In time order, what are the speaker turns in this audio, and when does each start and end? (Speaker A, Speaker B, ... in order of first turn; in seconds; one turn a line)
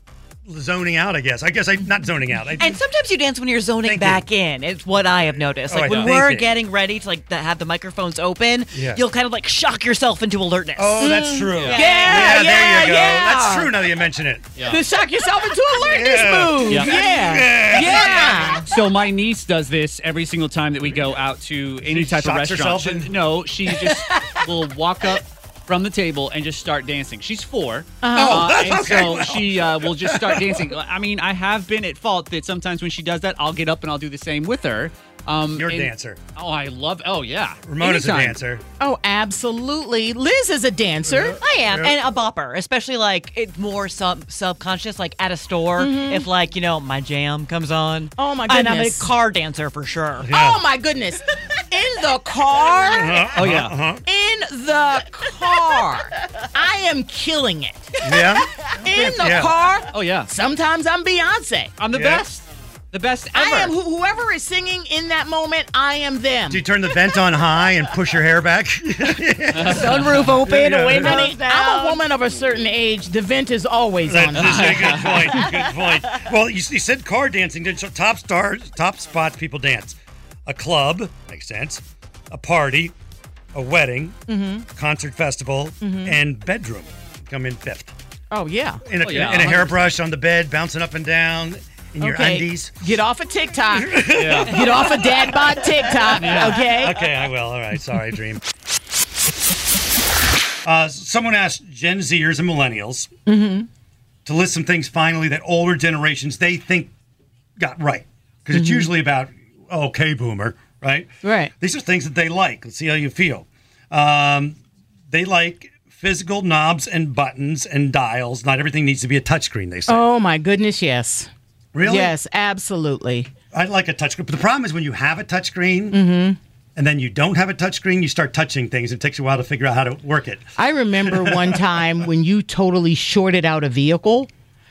Speaker A: 0.5-2.8
Speaker B: 2.6-11.1
Speaker A: 3.8-4.2
Speaker A: 5.7-6.5
Speaker A: 8.7-9.0
Speaker A: 10.8-14.5
Speaker C: 11.0-13.6
Speaker B: 11.6-12.9
Speaker C: 14.6-17.9
Speaker A: 15.8-18.6
Speaker D: 16.7-16.9
Speaker B: 17.7-18.6
Speaker D: 17.8-38.4
Speaker A: 21.8-23.1
Speaker C: 28.0-28.5
Speaker A: 28.1-30.7
Speaker A: 35.5-36.2
Speaker A: 37.6-38.6
Speaker C: 38.8-41.4
Speaker A: 41.1-42.0
Speaker B: 41.4-50.3
Speaker C: 45.8-46.3
Speaker C: 48.2-49.1
Speaker A: 50.2-50.6
Speaker C: 50.3-53.4
Speaker A: 52.7-54.0
Speaker D: 53.4-53.8
Speaker C: 54.0-61.7
Speaker A: 58.0-59.5
Speaker D: 59.9-60.3
Speaker D: 61.8-63.7
Speaker A: 61.9-62.2
Speaker C: 63.3-66.7
Speaker A: 66.5-71.3
Speaker D: 69.5-70.3
Speaker B: 69.7-71.9
Speaker C: 70.9-75.5
Speaker A: 74.0-82.9
Speaker D: 74.6-75.0
Speaker A: 83.5-84.2
Speaker C: 84.3-84.7
Speaker A: 84.7-87.9
Speaker C: 85.8-86.2
Speaker C: 88.3-88.8
Speaker A: 88.8-92.7
Speaker D: 89.0-89.7
Speaker C: 92.0-97.1
Speaker A: 93.7-98.4
Speaker D: 94.1-94.6
Speaker D: 96.1-96.6
Speaker A: 100.6-103.1
Speaker C: 103.2-103.7
Speaker A: 104.2-106.9
Speaker A: 107.6-114.6
Speaker C: 108.5-108.8
Speaker C: 111.2-111.5
Speaker A: 115.1-120.0
Speaker C: 119.9-121.3
Speaker A: 121.7-122.1
Speaker C: 121.8-123.3
Speaker A: 123.5-126.0
Speaker C: 125.9-126.4
Speaker A: 126.8-130.5
Speaker C: 130.6-134.3
Speaker A: 131.0-131.6